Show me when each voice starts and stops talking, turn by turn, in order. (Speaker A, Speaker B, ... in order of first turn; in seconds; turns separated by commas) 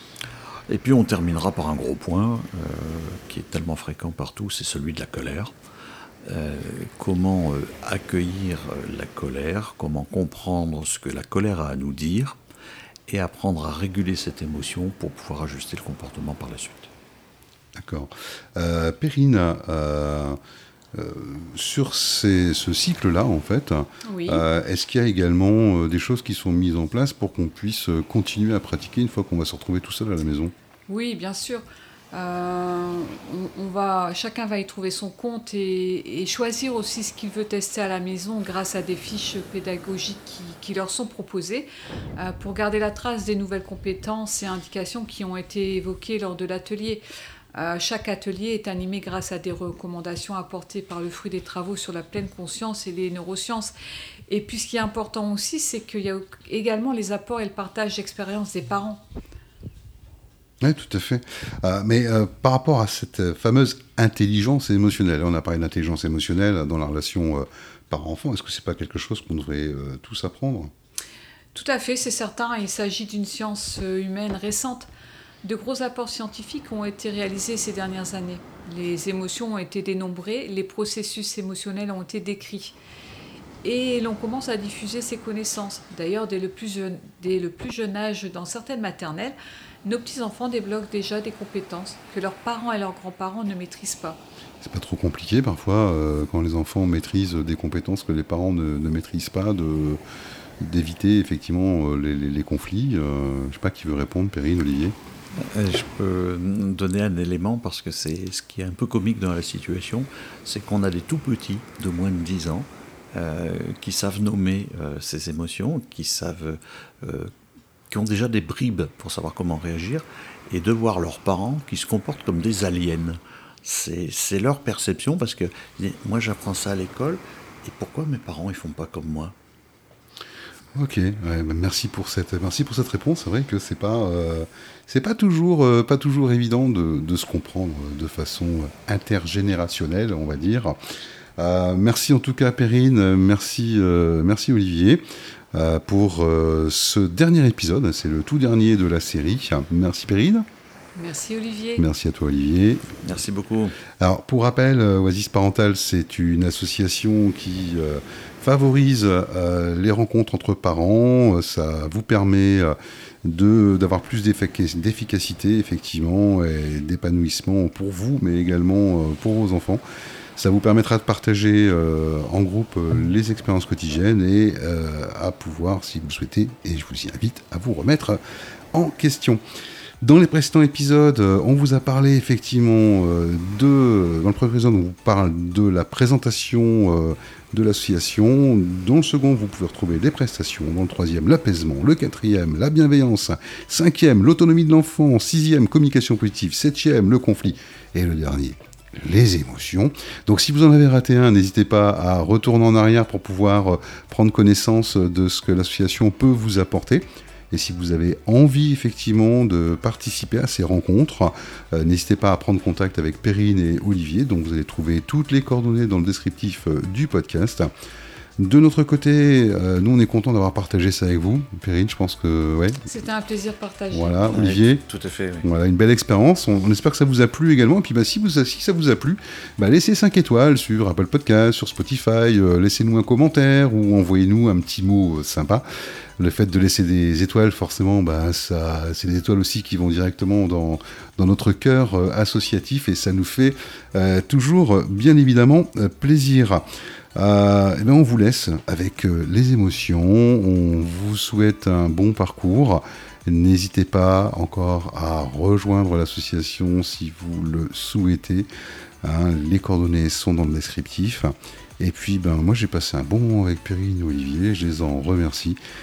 Speaker A: 0.7-5.5, Speaker A: 6.3-12.4, Speaker A: 13.1-16.9, Speaker B: 17.8-20.4, Speaker B: 20.9-30.5, Speaker C: 24.0-24.4, Speaker C: 30.9-47.0, Speaker C: 47.5-53.7, Speaker C: 54.3-59.0, Speaker B: 60.6-70.7, Speaker C: 71.5-74.9, Speaker C: 75.4-82.8, Speaker C: 83.6-94.2, Speaker B: 94.6-100.0, Speaker B: 100.6-105.0, Speaker A: 105.4-117.3, Speaker A: 117.9-129.3, Speaker B: 130.8-140.8, Speaker B: 141.4-150.5, Speaker C: 151.0-151.8, Speaker B: 151.8-152.9, Speaker A: 153.0-153.8, Speaker B: 154.0-169.8, Speaker B: 170.4-178.2, Speaker B: 178.7-179.4, Speaker B: 180.0-217.7, Speaker B: 218.4-222.9, Speaker C: 222.9-224.3, Speaker B: 223.9-224.8, Speaker A: 224.3-225.5, Speaker B: 225.4-235.7, Speaker B: 236.2-258.5, Speaker B: 259.0-265.6